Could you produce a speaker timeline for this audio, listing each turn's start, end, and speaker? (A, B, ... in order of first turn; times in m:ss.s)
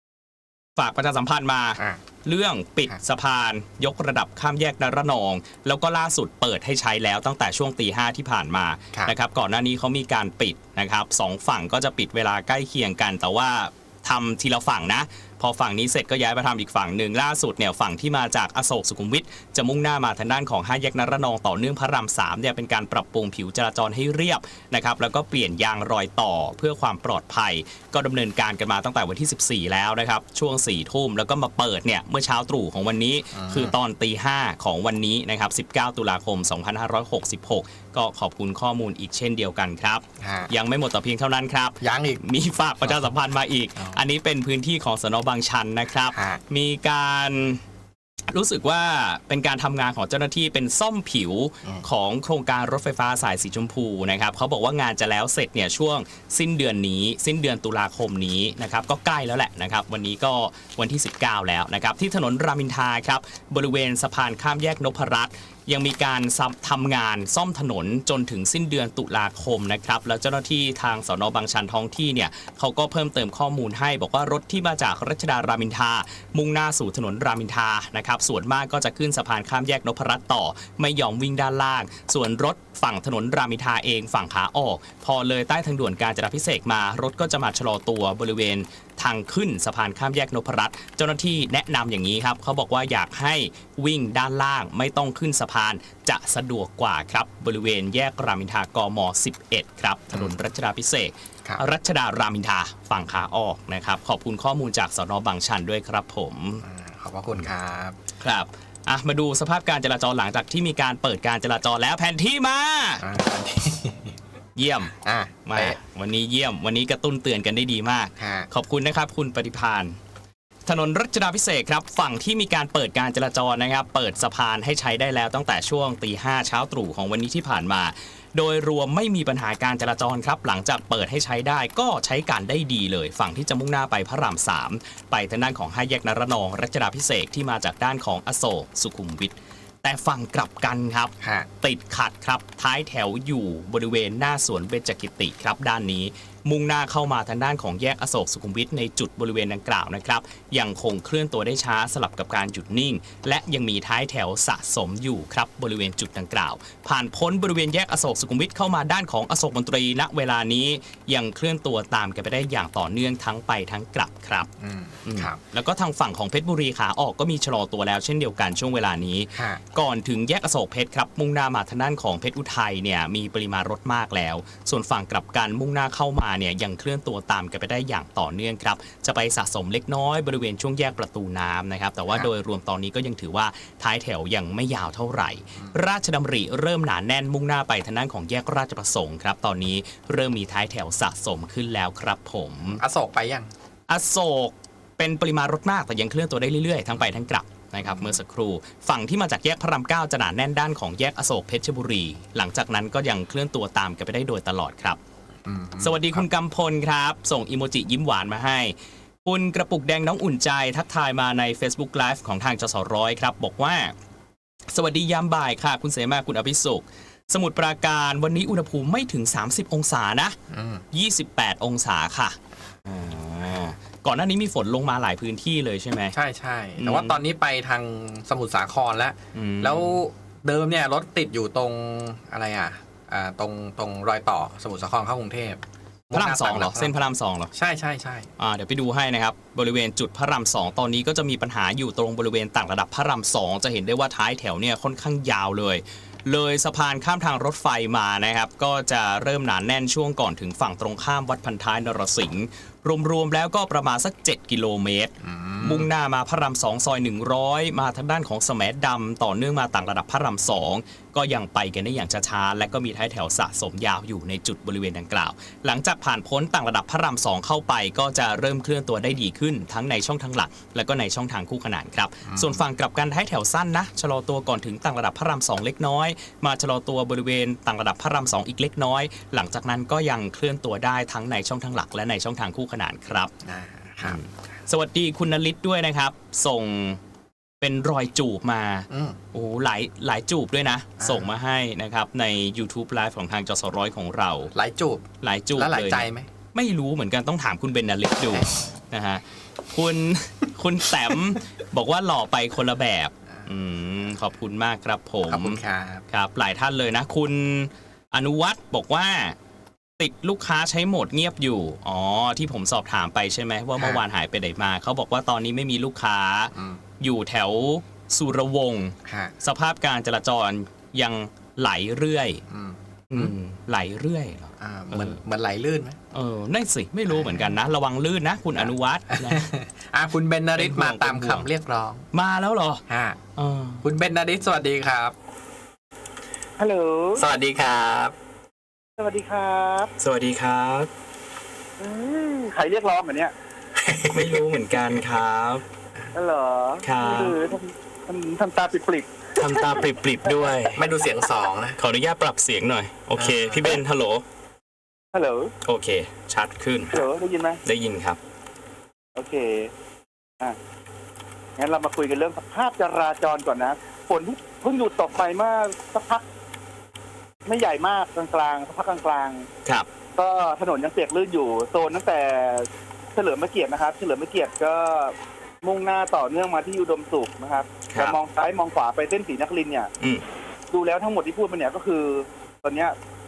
0:00.8-0:47.6 A
0:01.8-0:02.0 B
0:33.3-0:33.7 B
0:40.2-0:40.5 B
0:41.8-0:42.2 B
0:42.8-0:43.1 B
0:43.8-0:44.0 B
0:46.1-0:46.4 B
0:48.3-1:46.6 A
1:40.1-1:40.4 B
1:46.6-1:48.0 B
1:48.2-1:53.0 A
1:53.0-1:54.2 B
1:54.6-1:54.9 A
1:54.9-1:55.8 B
1:55.5-1:59.9 A
1:58.2-1:58.5 B
2:00.6-2:44.5 A
2:21.2-2:21.5 B
2:44.6-2:45.4 B
2:45.0-3:12.8 A
2:49.3-2:49.6 B
3:12.6-3:13.5 B
3:13.9-3:25.0 A
3:17.8-3:18.2 B
3:25.4-3:26.2 B
3:25.8-3:28.7 A
3:29.2-3:33.9 A
3:34.7-3:40.4 A
3:40.5-3:40.8 B
3:40.9-3:46.1 A
3:46.1-3:57.0 B
3:46.8-3:47.2 A
3:49.3-3:50.0 A
3:56.1-3:57.5 A
3:57.5-3:58.3 B
3:58.4-4:43.3 A
4:15.2-4:15.9 B
4:32.2-4:32.6 B
4:43.4-4:44.2 B
4:44.0-4:47.0 A
4:47.6-4:54.5 A
4:48.9-4:49.2 B
4:51.0-4:51.3 B
4:54.5-4:56.3 B
4:55.2-5:05.6 A
5:05.3-5:06.0 B
5:06.1-5:09.4 A
5:10.0-5:22.4 A
5:13.8-5:14.0 B
5:16.5-5:16.8 B
5:19.0-5:19.3 B
5:22.5-5:23.3 B
5:23.1-5:25.2 A
5:24.6-5:26.0 B
5:26.1-5:29.5 A
5:27.1-5:27.5 B
5:28.6-5:32.0 B
5:30.6-5:31.5 A
5:32.1-5:32.8 A
5:32.9-5:33.2 B
5:33.4-5:33.8 A
5:33.8-5:35.1 B
5:36.6-5:37.2 C
5:37.2-5:38.1 B
5:39.0-5:39.9 C
5:40.0-5:40.9 A
5:41.8-5:43.3 C
5:43.8-5:44.4 B
5:44.1-5:45.6 A
5:46.1-5:49.2 C
5:46.8-5:47.4 A
5:49.4-5:50.8 A
5:50.7-5:51.8 B
5:51.8-5:54.2 A
5:53.2-5:53.6 B
5:55.1-5:55.5 C
5:55.6-5:57.0 A
5:56.9-5:57.6 C
5:57.6-5:58.2 A
5:59.2-5:59.7 C
6:01.6-6:06.2 C
6:07.5-6:09.5 C
6:10.2-6:19.9 C
6:20.7-6:22.9 C